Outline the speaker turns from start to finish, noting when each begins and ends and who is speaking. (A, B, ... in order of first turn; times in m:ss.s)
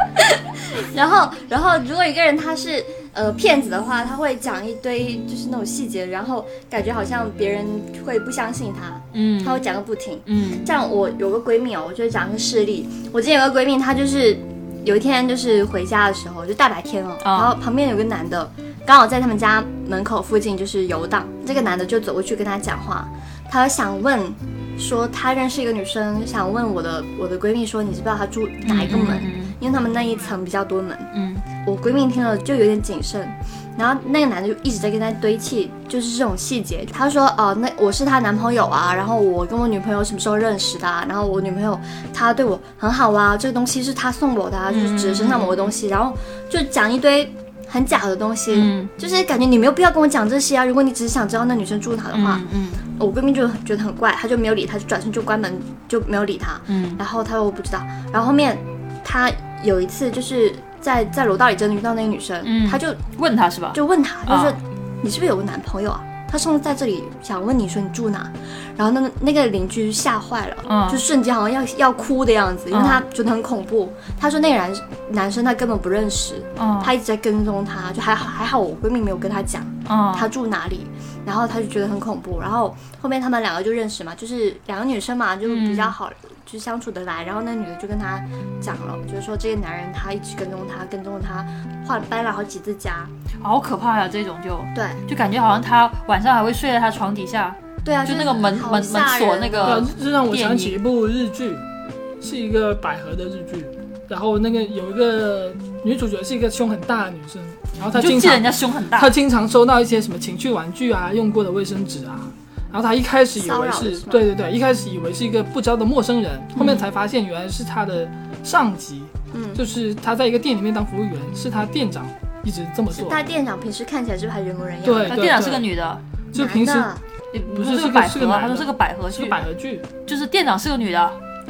0:00.8-1:03.0 A
0:09.1-0:09.6 B
0:10.3-0:10.7 B
0:17.2-0:17.6 B
0:28.6-0:29.6 B
0:31.1-0:31.4 B
0:44.7-0:45.7 B
0:48.5-0:48.9 B
0:52.1-0:52.8 B
0:56.7-0:57.0 B
1:02.4-1:04.6 B
1:03.7-1:33.1 A
1:10.7-1:11.0 B
1:12.7-1:13.0 B
1:16.6-1:16.9 B
1:19.9-1:20.3 B
1:25.4-1:26.0 B
1:33.4-1:40.8 B
1:34.8-1:35.0 A
1:37.8-1:39.9 A
1:39.6-1:41.6 C
1:42.2-2:03.2 C
1:47.9-1:49.1 B
1:53.4-1:54.3 A
1:56.6-1:56.8 B
1:59.3-1:59.6 A
2:02.9-2:05.3 A
2:04.8-2:05.7 C
2:05.0-2:06.0 B
2:06.3-2:06.9 C
2:06.3-2:07.0 A
2:07.3-2:09.4 B
2:07.5-2:09.9 C
2:10.1-2:11.2 B